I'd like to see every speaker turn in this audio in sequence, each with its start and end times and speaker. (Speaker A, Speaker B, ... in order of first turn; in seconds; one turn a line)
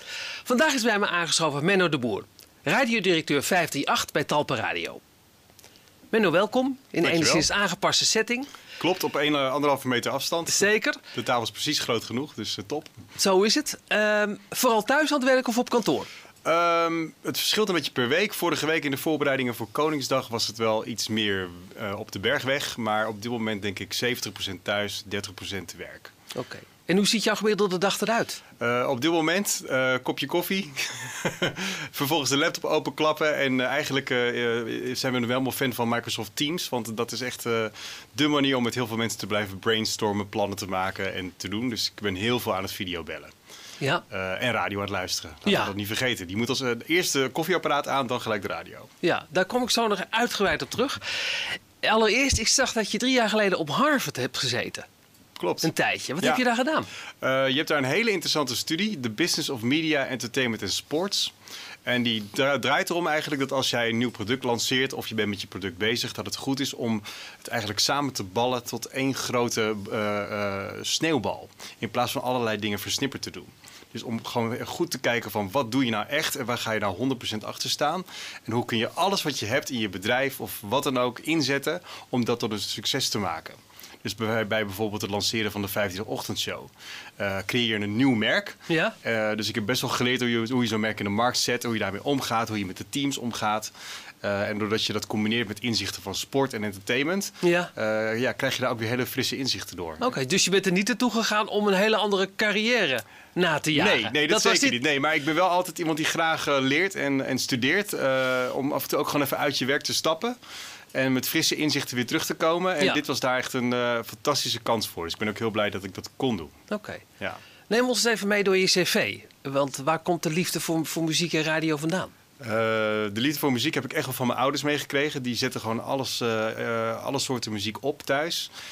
Speaker A: 0.5-5.0
Speaker A: 6.1-8.5
Speaker B: 7.0-7.5
Speaker B: 8.8-13.0
Speaker A: 10.5-11.0
Speaker A: 13.2-16.1
Speaker B: 16.4-26.1
Speaker A: 26.3-28.4
Speaker B: 28.6-43.3
Speaker B: 44.1-48.9
Speaker A: 45.5-45.7
Speaker A: 49.0-54.9
Speaker B: 55.4-56.4
Speaker A: 55.6-56.9
Speaker B: 57.2-61.3
Speaker B: 61.9-100.0
Speaker A: 88.7-88.9
Speaker A: 97.4-97.7
Speaker A: 100.0-104.8
Speaker B: 103.7-110.4
Speaker B: 110.9-116.5
Speaker A: 116.7-117.0
Speaker A: 117.7-122.1
Speaker B: 122.4-128.5